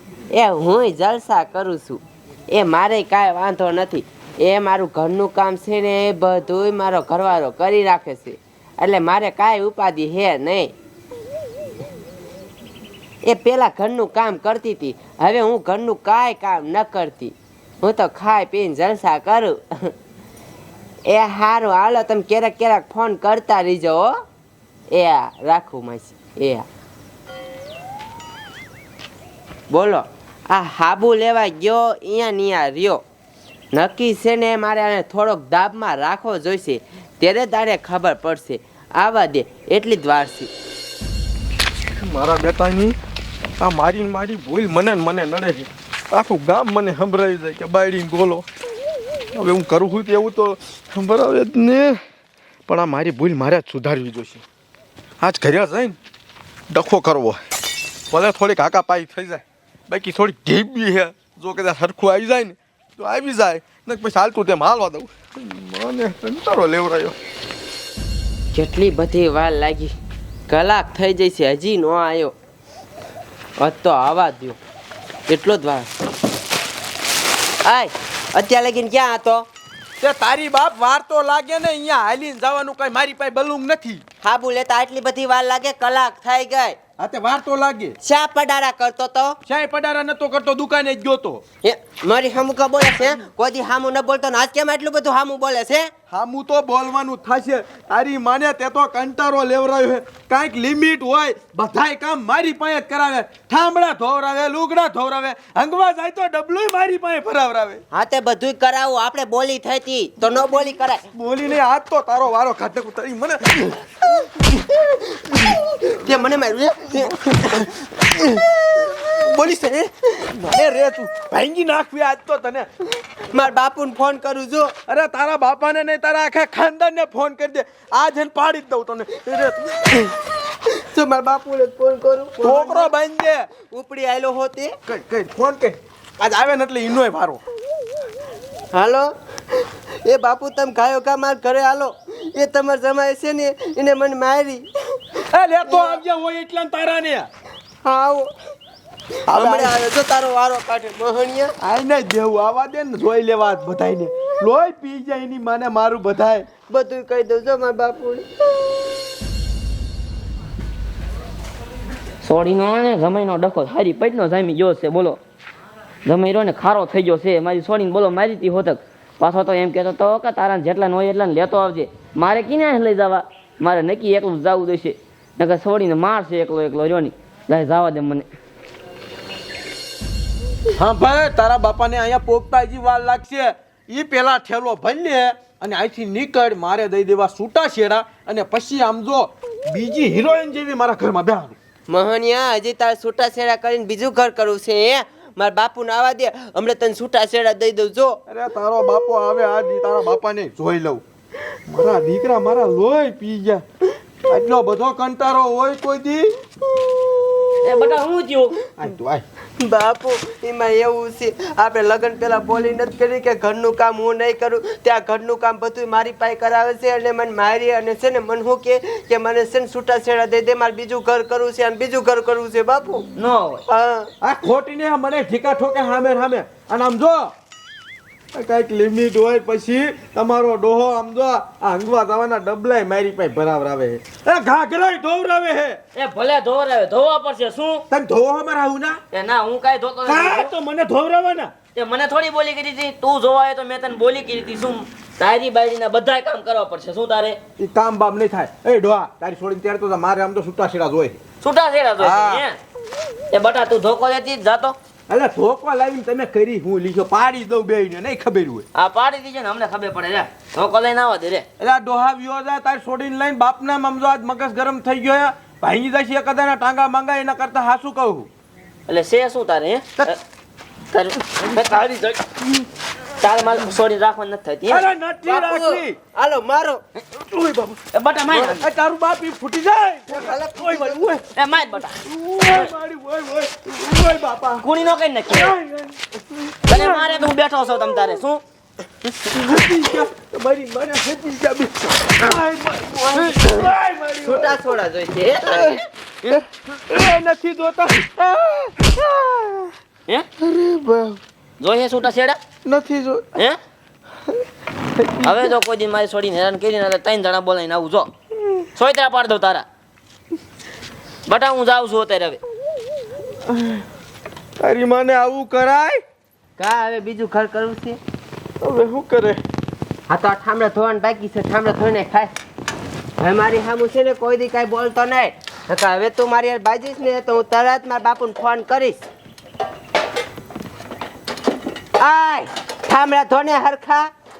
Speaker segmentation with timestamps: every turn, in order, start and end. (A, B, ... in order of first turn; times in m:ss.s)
0:00.3-0:10.7 A
0:13.2-0:19.9 A
0:21.1-0:24.1 A
0:24.9-0:26.6 A
0:29.7-0:33.0 A
0:33.7-0:40.5 A
0:42.0-0:43.0 B
0:43.6-0:48.4 B
0:49.3-0:52.0 B
0:52.7-0:54.4 B
0:55.2-0:56.0 B
0:56.7-0:57.4 B
0:58.1-1:07.2 B
1:08.5-1:09.9 A
1:10.5-1:12.3 A
1:13.6-1:14.6 A
1:15.3-1:15.9 A
1:17.6-1:19.5 A
1:20.0-1:24.0 B
1:24.2-1:26.8 A
1:27.0-1:28.0 B
1:28.0-1:29.4 A
1:29.4-1:31.4 B
1:31.6-1:35.9 A
1:36.1-1:47.8 B
1:47.9-1:51.0 A
1:51.1-1:54.2 B
1:55.9-1:57.7 A
1:58.8-2:02.7 B
2:03.3-2:04.7 A
2:04.9-2:10.1 B
2:10.8-2:12.9 A
2:12.4-2:13.5 B
2:13.6-2:14.7 A
2:14.9-2:17.4 B
2:18.7-2:19.1 A
2:20.0-2:24.7 A
2:25.3-2:27.3 B
2:25.6-2:26.0 A
2:27.8-2:28.3 A
2:29.3-2:29.8 B
2:29.3-2:31.5 A
2:31.6-2:36.6 B
2:36.6-2:38.2 A
2:42.2-2:45.2 C
2:46.0-2:58.3 C
3:00.8-3:11.6 B
3:11.9-3:18.2 A
3:18.2-3:21.0 B
3:21.7-3:23.6 B
3:24.3-3:26.4 B
3:27.6-3:28.6 C
3:28.7-3:29.2 B
3:29.6-3:43.0 A
3:43.2-3:43.6 C
3:43.7-3:44.1 A
3:44.2-3:47.3 B
3:48.3-3:55.8 B
3:55.9-3:57.8 C
3:57.9-3:59.0 B
3:59.1-4:00.5 C
4:00.0-4:01.5 B
4:01.7-4:07.4 C
4:07.6-4:11.2 B
4:11.4-4:12.6 C
4:12.0-4:12.4 B
4:13.3-4:14.7 C
4:15.1-4:18.6 B
4:18.7-4:21.4 C
4:21.6-4:28.3 B
4:28.9-4:30.2 C
4:30.9-4:32.2 C
4:33.2-4:34.8 C
4:34.7-4:36.0 B
4:35.2-4:36.8 A
4:37.2-4:37.8 B
4:37.9-4:38.7 C
4:38.3-4:41.2 B
4:40.1-4:41.1 A
4:41.3-4:41.9 C
4:42.0-4:44.7 B
4:44.6-4:45.5 C
4:45.3-4:47.3 B
4:46.7-4:48.4 C
4:49.2-4:54.7 B
4:53.1-4:53.4 A
4:54.2-4:55.8 A
4:55.4-4:55.8 B
4:56.3-4:59.7 B
5:00.4-5:01.2 B
5:01.6-5:02.4 C
5:02.6-5:03.4 B
5:05.0-5:05.5 B
5:05.2-5:08.1 C
5:08.7-5:09.6 C
5:11.2-5:12.4 C
5:13.4-5:13.8 B
5:14.6-5:16.0 B
5:16.6-5:18.0 A
5:18.6-5:19.4 B
5:20.1-5:22.3 A
5:23.2-5:29.0 A
5:32.0-5:34.1 A